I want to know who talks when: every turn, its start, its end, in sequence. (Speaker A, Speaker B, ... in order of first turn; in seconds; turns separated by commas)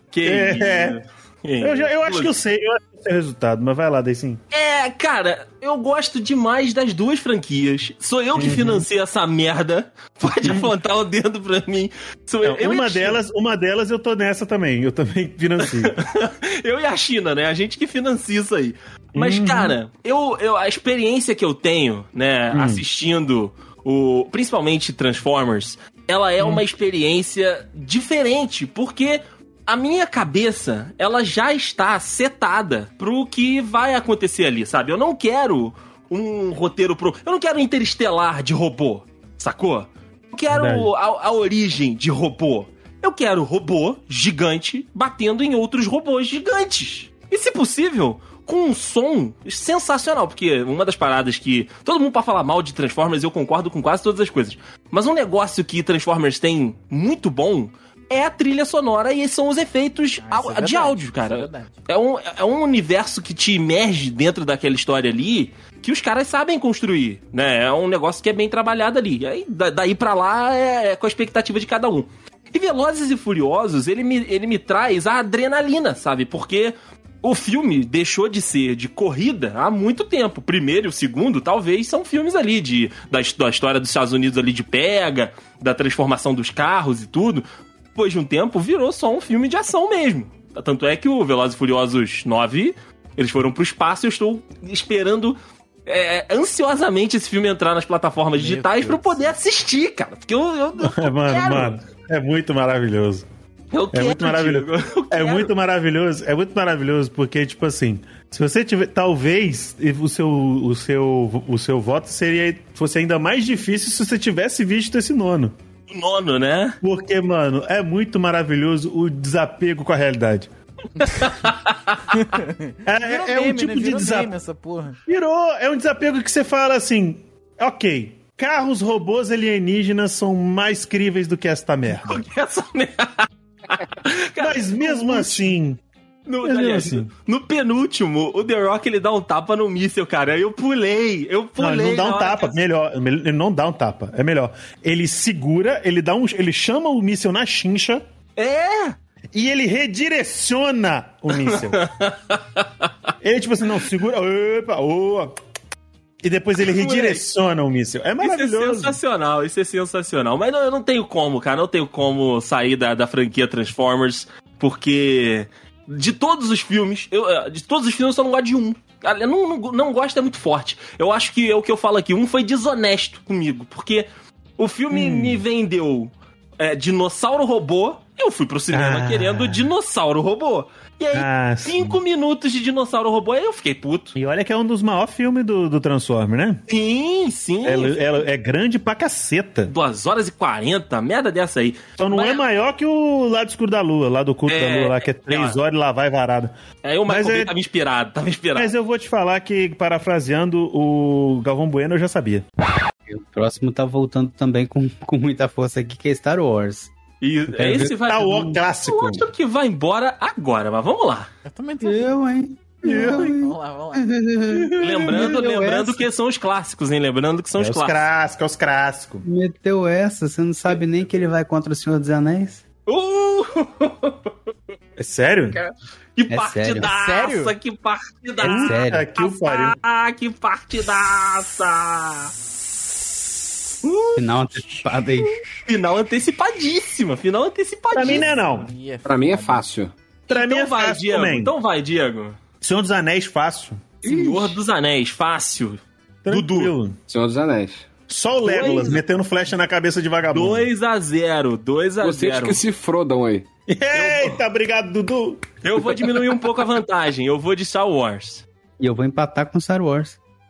Speaker A: 0.1-2.3, Speaker B: 0.2-1.0, Speaker B: 1.6-4.4, Speaker A: 4.5-13.2, Speaker B: 8.3-8.8, Speaker B: 12.4-15.9, Speaker A: 15.6-101.8, Speaker B: 19.1-19.8, Speaker B: 22.5-22.8, Speaker B: 40.5-40.9, Speaker C: 60.2-61.8, Speaker C: 98.3-99.3, Speaker B: 100.8-103.2, Speaker A: 103.7-105.5, Speaker B: 103.9-115.5, Speaker A: 115.9-116.8, Speaker B: 116.8-120.5, Speaker A: 121.1-122.0, Speaker C: 122.1-125.0, Speaker B: 122.8-124.3, Speaker B: 125.1-132.2, Speaker A: 131.9-135.6, Speaker B: 134.4-135.8, Speaker A: 136.3-142.6, Speaker B: 136.4-137.1, Speaker B: 141.6-148.0, Speaker A: 148.4-148.9, Speaker B: 149.3-151.8, Speaker A: 151.4-152.9, Speaker B: 153.2-155.3, Speaker B: 156.2-159.0, Speaker A: 156.6-157.2, Speaker A: 158.2-184.1, Speaker B: 174.9-175.4, Speaker B: 178.7-179.7, Speaker B: 181.1-182.0, Speaker B: 184.1-186.6, Speaker A: 186.7-188.0, Speaker B: 187.6-189.7, Speaker A: 189.7-192.4, Speaker B: 192.0-196.5, Speaker A: 194.5-195.6, Speaker A: 196.8-198.7, Speaker B: 197.1-197.5, Speaker B: 198.5-202.4, Speaker D: 203.1-206.9, Speaker A: 207.2-211.3, Speaker D: 207.5-207.9, Speaker B: 208.0-209.3, Speaker C: 211.4-212.1, Speaker D: 211.8-216.0, Speaker C: 212.8-214.1, Speaker B: 212.8-213.3, Speaker A: 214.8-218.0, Speaker B: 217.5-219.2, Speaker D: 219.2-222.6, Speaker A: 222.9-224.3, Speaker B: 225.0-225.6, Speaker A: 225.6-232.3, Speaker D: 226.3-226.9, Speaker C: 226.8-227.5, Speaker B: 228.4-229.8, Speaker D: 228.4-229.1, Speaker A: 233.8-234.8, Speaker D: 234.2-235.4, Speaker A: 235.6-238.3, Speaker B: 237.9-238.7, Speaker C: 238.1-239.6, Speaker E: 239.0-239.9, Speaker B: 240.3-241.5, Speaker A: 240.3-242.4, Speaker B: 242.6-243.9, Speaker E: 244.0-244.6, Speaker A: 244.0-246.7, Speaker B: 246.2-247.0, Speaker E: 247.1-247.9, Speaker B: 248.1-250.7, Speaker A: 248.4-249.0, Speaker A: 250.3-252.6, Speaker E: 252.0-253.5, Speaker B: 253.7-255.4, Speaker A: 253.9-254.4, Speaker A: 255.6-258.4, Speaker D: 258.8-260.2